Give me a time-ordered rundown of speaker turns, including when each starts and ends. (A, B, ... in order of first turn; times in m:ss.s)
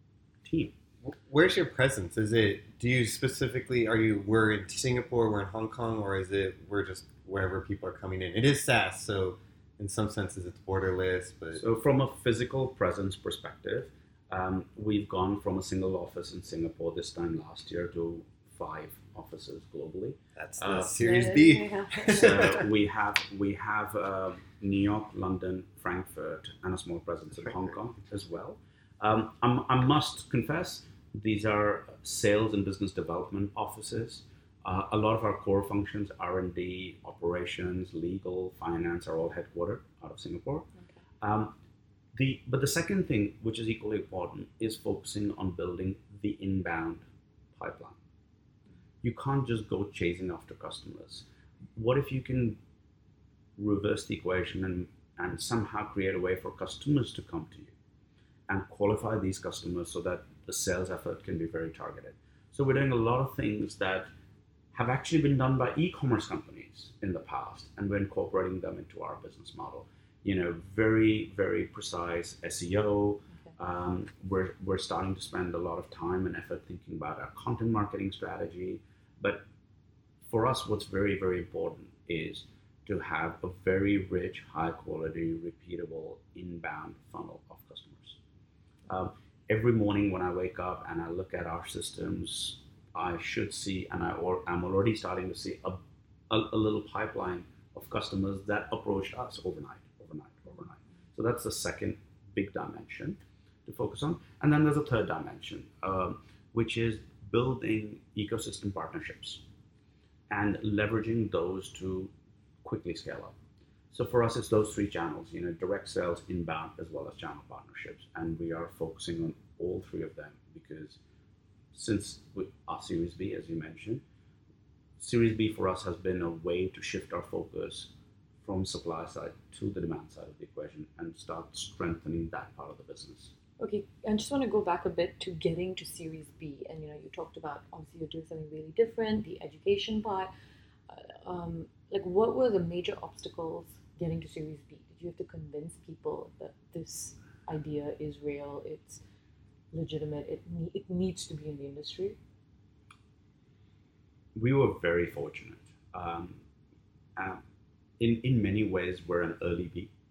0:00.4-0:00.7 A
0:01.0-0:11.6 B
0:11.5-0:20.9 A
0:20.4-0:22.7 B
0:21.0-0:22.3 C
0:22.1-0:40.7 A
0:41.2-0:41.5 A
0:42.1-0:47.0 A
0:47.6-0:48.0 A
0:49.0-0:51.2 A
0:51.8-0:52.6 A
0:53.6-0:57.7 A
0:58.5-1:04.1 A
1:04.7-1:19.4 A
1:20.3-1:28.2 A
1:28.9-1:49.4 A
1:50.3-1:52.1 A
1:52.6-1:53.3 A
1:53.9-2:01.0 A
2:01.7-2:04.0 A
2:05.0-2:07.9 A
2:08.4-2:13.3 A
2:13.6-2:20.3 C
2:20.9-2:29.0 C
2:29.7-2:32.2 C
2:34.4-2:36.4 A
2:37.2-2:37.4 A
2:38.0-2:39.9 A